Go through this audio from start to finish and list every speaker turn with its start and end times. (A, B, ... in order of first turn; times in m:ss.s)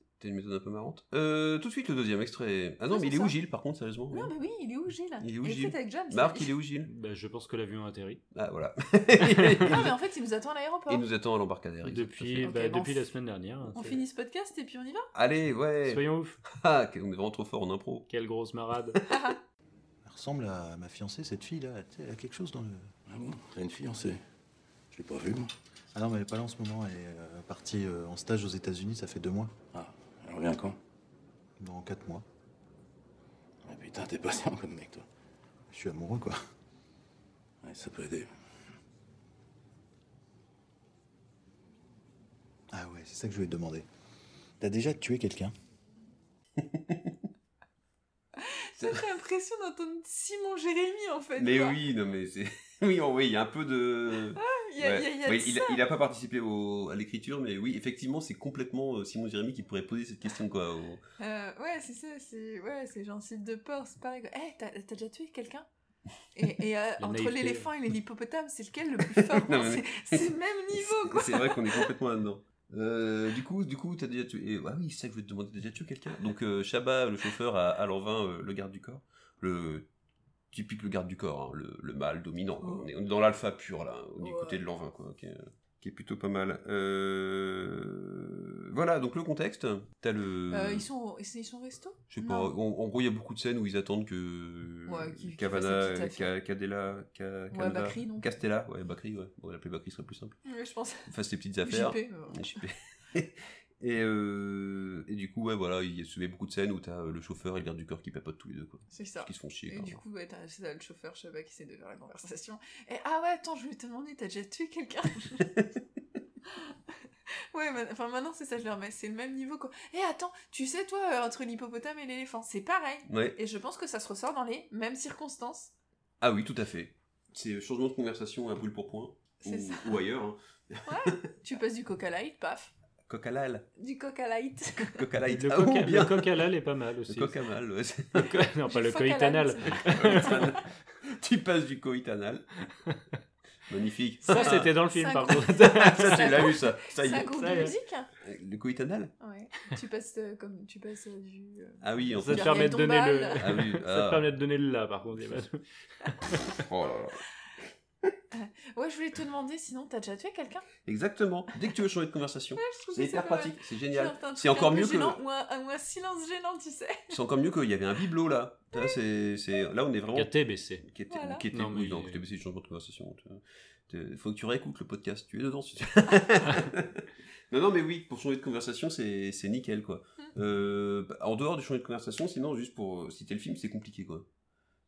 0:00.2-0:04.3 A
0:02.9-0:03.3 B
0:04.1-0:06.5 B
0:05.2-0:06.9 A
0:06.8-0:08.2 C
0:08.3-0:10.0 A
0:09.7-0:11.0 B
0:10.9-0:12.5 A
0:11.8-0:14.0 C
0:12.4-0:13.0 B
0:13.7-0:15.1 B
0:15.1-0:18.1 A
0:15.8-0:16.4 C
0:18.1-0:19.0 C
0:19.1-0:19.4 B
0:20.0-0:22.9 D
0:23.1-0:24.2 E
0:24.9-0:25.5 E
0:25.9-0:29.5 D
0:29.7-0:30.8 E
0:31.6-0:32.2 D
0:33.6-0:35.0 E
0:35.7-0:36.4 D
0:37.6-0:38.3 E
0:42.7-0:43.9 D
0:44.6-0:45.5 D
0:46.6-0:47.2 A
0:48.4-0:51.8 B
0:51.4-1:01.0 A
0:54.4-0:55.8 B
1:01.2-1:05.7 B
1:06.3-1:11.9 B
1:07.0-1:07.7 C
1:09.2-1:10.3 A
1:10.9-1:19.9 A
1:20.5-1:30.9 A
1:22.6-1:22.9 B
1:24.2-1:24.6 B
1:30.5-1:32.5 B
1:32.1-1:40.4 A
1:34.9-1:36.3 B
1:37.5-1:38.3 B
1:40.4-1:41.1 B
1:41.1-1:50.0 A
1:41.6-1:42.4 B
1:48.9-1:55.4 B
1:57.5-2:05.7 B
2:03.1-2:03.4 A
2:06.2-2:11.1 A
2:09.4-2:10.0 B
2:10.8-2:12.7 B
2:13.1-2:13.7 A
2:13.8-2:15.0 B
2:14.8-2:16.4 A
2:15.3-2:17.4 C
2:17.1-2:18.4 A
2:18.2-2:20.5 C
2:18.7-2:20.5 B
2:19.9-2:22.6 A
2:23.7-2:24.7 A
2:24.2-2:26.5 C
2:24.2-2:28.1 B
2:25.5-2:27.6 A
2:27.3-2:27.7 C
2:28.2-2:29.1 A
2:29.2-2:33.4 B
2:31.8-2:32.8 A
2:32.2-2:36.5 C
2:33.4-2:34.3 A
2:36.3-2:37.2 A
2:38.3-2:40.6 B
2:40.8-2:45.2 A
2:42.6-2:47.1 B
2:47.1-3:04.2 A
2:50.1-2:50.8 C
2:51.1-2:51.4 B
2:51.5-2:52.2 C